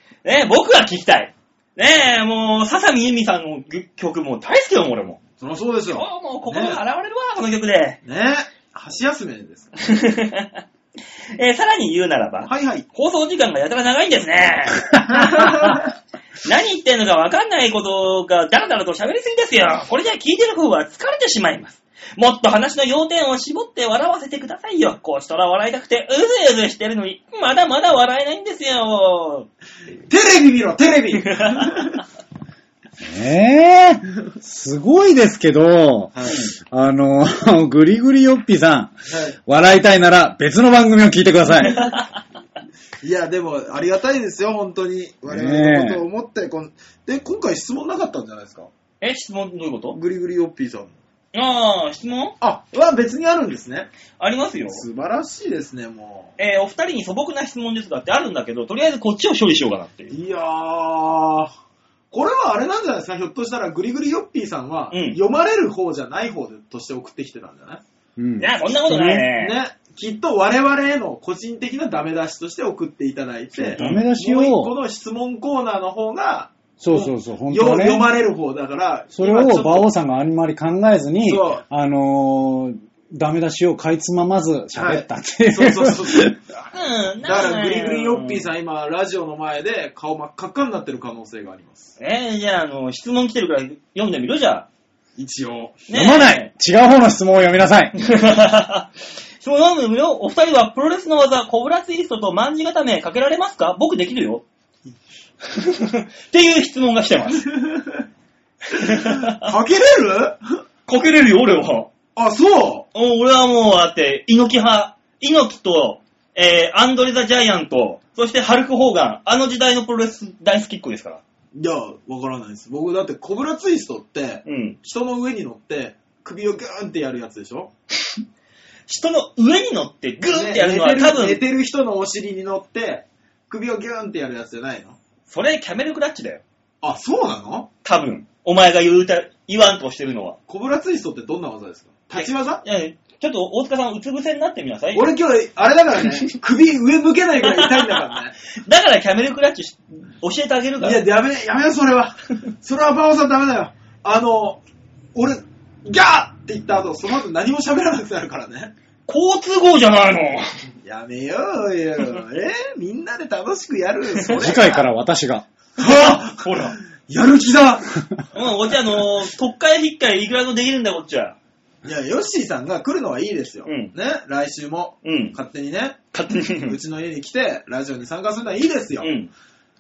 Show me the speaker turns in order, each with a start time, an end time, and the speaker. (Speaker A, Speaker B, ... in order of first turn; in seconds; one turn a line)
Speaker A: 0.2-5.2
Speaker B: 5.4-6.8
Speaker A: 5.9-8.0
Speaker B: 8.1-9.7
Speaker A: 9.8-10.6
Speaker A: 11.3-15.8
Speaker B: 12.4-12.9
Speaker B: 15.1-15.8
Speaker A: 16.4-29.5
Speaker B: 30.1-32.0
Speaker A: 31.2-31.9
Speaker C: 33.0-39.0
Speaker B: 36.1-36.4
Speaker B: 39.1-39.4
Speaker C: 39.5-41.9
Speaker A: 41.6-42.1
Speaker B: 43.0-48.7
Speaker C: 45.3-46.0
Speaker A: 49.0-50.0
Speaker B: 49.9-51.0
Speaker A: 51.3-52.4
Speaker B: 52.4-53.9
Speaker A: 54.2-54.8
Speaker B: 54.7-56.4
Speaker A: 56.4-60.2
Speaker B: 60.1-61.5
Speaker B: 62.1-67.8
Speaker A: 64.9-65.2
Speaker C: 68.2-69.3
Speaker A: 68.4-69.6
Speaker B: 69.3-79.9
Speaker C: 73.5-74.8
Speaker A: 73.8-74.1
Speaker C: 76.8-78.1
Speaker C: 79.1-86.4
Speaker B: 81.2-81.6
Speaker B: 84.8-86.4
Speaker A: 86.7-88.5
Speaker B: 87.2-91.9
Speaker A: 92.0-94.7
Speaker B: 95.2-95.8
Speaker A: 95.9-96.5
Speaker C: 95.9-97.9
Speaker A: 98.0-98.9
Speaker A: 99.4-104.4
Speaker A: 105.4-107.5
Speaker B: 107.5-108.0
Speaker A: 108.7-109.5
Speaker B: 108.8-110.4
Speaker A: 110.9-111.9
Speaker B: 112.2-112.9
Speaker A: 112.9-121.2
Speaker B: 121.5-127.7
Speaker A: 124.5-124.8
Speaker A: 128.9-131.4
Speaker B: 130.3-135.0
Speaker A: 135.3-136.4
Speaker B: 136.8-137.7
Speaker A: 137.8-140.4
Speaker B: 140.5-142.6
Speaker A: 142.2-145.1
Speaker B: 144.9-148.3
Speaker A: 147.4-148.0
Speaker A: 148.6-151.0
Speaker B: 150.8-154.6
Speaker B: 155.2-158.7
Speaker A: 159.1-160.5
Speaker B: 160.8-164.8
Speaker C: 164.3-165.5
Speaker B: 165.8-167.9
Speaker A: 165.8-166.8
Speaker A: 168.3-171.4
Speaker B: 171.8-176.0
Speaker A: 173.7-173.9
Speaker A: 175.0-175.4
Speaker A: 176.1-176.8
Speaker B: 176.6-179.1
Speaker A: 179.0-179.3